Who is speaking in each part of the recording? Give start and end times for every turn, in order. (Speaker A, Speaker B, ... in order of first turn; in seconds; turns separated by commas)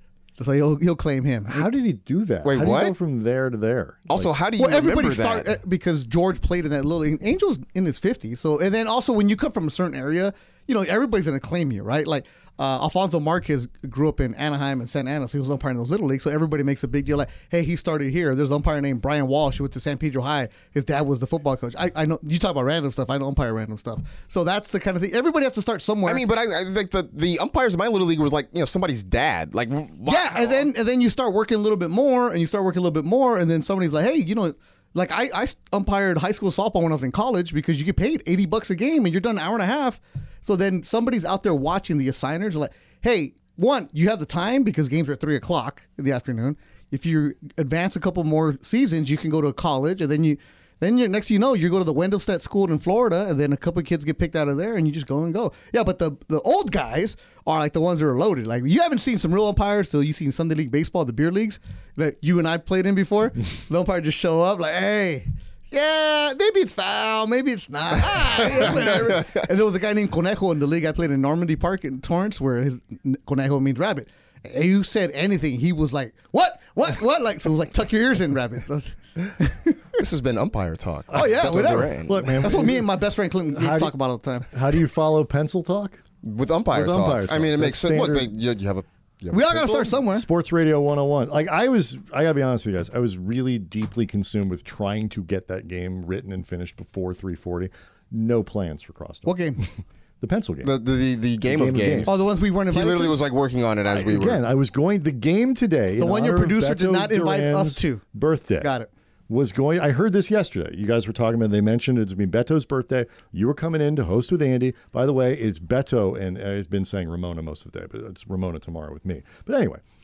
Speaker A: 0.4-1.7, Speaker B: 1.5-4.3, Speaker C: 2.4-2.9, Speaker C: 4.1-5.5, Speaker A: 4.6-26.2, Speaker C: 26.1-30.7, Speaker A: 30.1-79.8, Speaker C: 68.4-69.4, Speaker C: 80.0-82.5, Speaker B: 81.1-82.9, Speaker A: 81.1-84.5, Speaker B: 83.5-84.0, Speaker B: 84.5-86.0, Speaker C: 86.2-89.8, Speaker B: 86.7-88.3, Speaker A: 89.3-90.2, Speaker B: 89.5-99.7, Speaker A: 99.2-99.6, Speaker B: 100.2-100.8, Speaker C: 100.6-104.4, Speaker B: 101.4-102.2, Speaker A: 102.0-103.2, Speaker B: 103.9-108.7, Speaker A: 106.0-108.0, Speaker A: 108.6-108.9, Speaker B: 109.3-119.8